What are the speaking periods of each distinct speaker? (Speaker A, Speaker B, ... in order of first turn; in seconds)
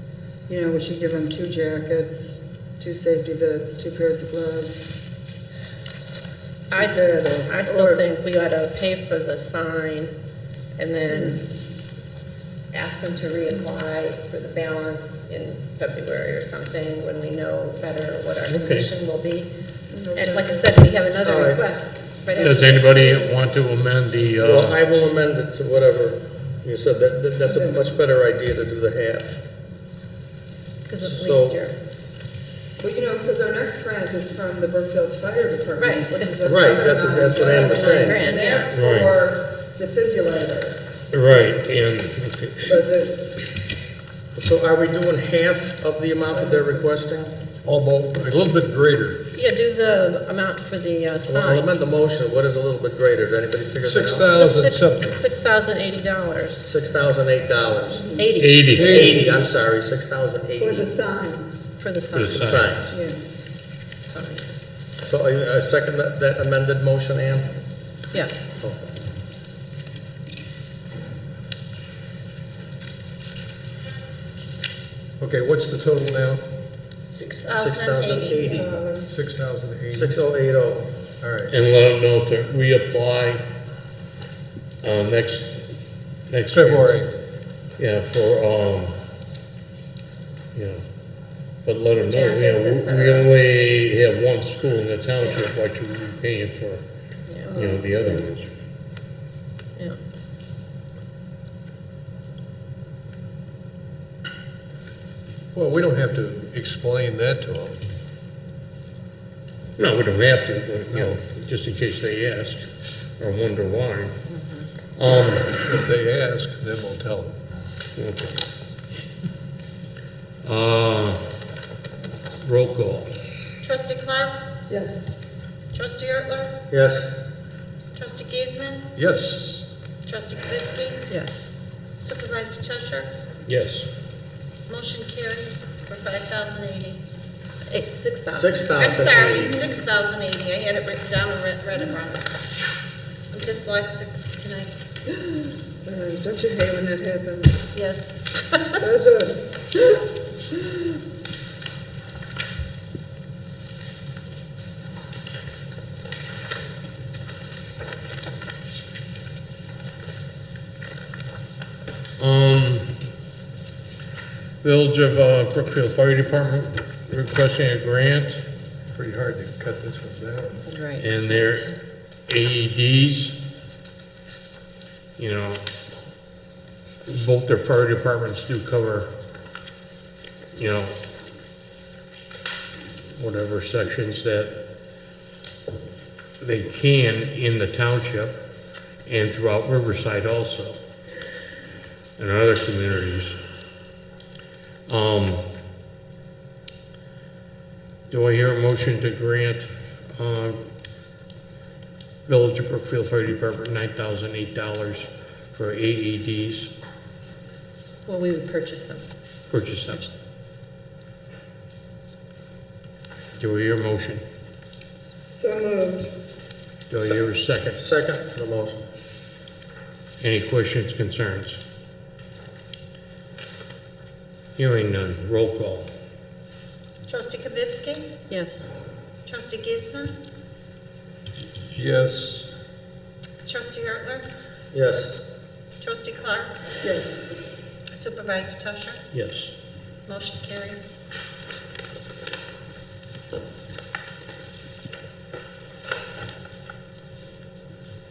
Speaker A: 0.5-4.9, 6.7-8.0, 11.1-11.4, 19.9-20.9, 27.4-27.9, 32.8-41.4, 42.6-43.4, 46.2-46.9, 57.9-58.3, 60.6-61.5, 62.9-63.2, 78.5-79.2, 97.5-98.2, 124.7-125.2, 139.4-139.7, 145.1-147.7, 148.8-150.6, 215.3-216.1, 236.8-237.2
Speaker B: 6.7-10.1, 10.8-11.4, 12.7-19.5, 20.1-23.3, 30.9-31.8, 35.8-36.3, 37.4-38.8, 49.3-51.7, 54.3-56.7, 58.2-58.8, 61.8-62.4, 64.0-64.6, 68.1-68.5, 77.1-77.5, 92.0-93.3, 97.3-97.6, 114.3-114.7, 131.1-131.5, 137.7-138.7, 147.7-148.7, 170.7-171.7, 208.1-209.0, 228.3-228.7
Speaker C: 18.5-18.9, 22.3-24.8, 38.7-39.1, 41.1-42.8, 58.4-59.0, 62.1-62.7, 81.5-83.4, 84.8-85.7, 86.3-87.0, 87.8-89.0, 90.5-90.8, 91.6-96.8, 97.5-98.5, 109.8-112.7, 113.2-114.2, 115.0-115.6, 118.0-118.4, 120.4-121.2, 122.4-123.1, 133.4-133.9, 162.2-162.9, 164.6-168.4, 171.0-171.7, 172.3-173.4, 175.2-175.6, 177.1-179.1, 180.5-180.9, 183.2-184.6, 186.4-188.3, 189.1-190.8, 192.2-193.4, 194.9-195.4, 198.1-200.6, 202.3-206.7, 209.5-210.0, 213.4-214.2, 216.9-217.8, 220.2-221.6, 224.6-225.9, 239.1-239.6
Speaker D: 21.2-21.6, 24.4-29.4, 31.0-31.6, 36.4-38.2, 44.4-47.4, 51.2-54.4, 56.6-58.1, 58.8-60.9, 62.3-63.0, 65.0-67.5, 68.6-68.9, 77.5-78.8, 79.9-80.9, 126.7-127.1, 138.3-139.5, 217.7-218.9, 234.7-235.2
Speaker E: 47.6-49.2, 53.8-55.2, 58.7-59.4, 75.2-76.4, 79.1-80.2, 81.2-81.5, 86.5-87.1, 105.5-107.8, 115.6-117.4, 128.9-129.7, 168.9-170.6, 231.7-232.5
Speaker F: 77.4-78.5, 123.6-124.4, 125.7-126.6, 127.9-128.9, 130.0-131.0, 132.0-133.1, 134.7-137.0, 138.7-142.3, 143.3-144.7, 227.0-228.2, 229.2-230.2, 233.4-234.3, 235.8-236.5, 237.9-239.0, 240.1-240.8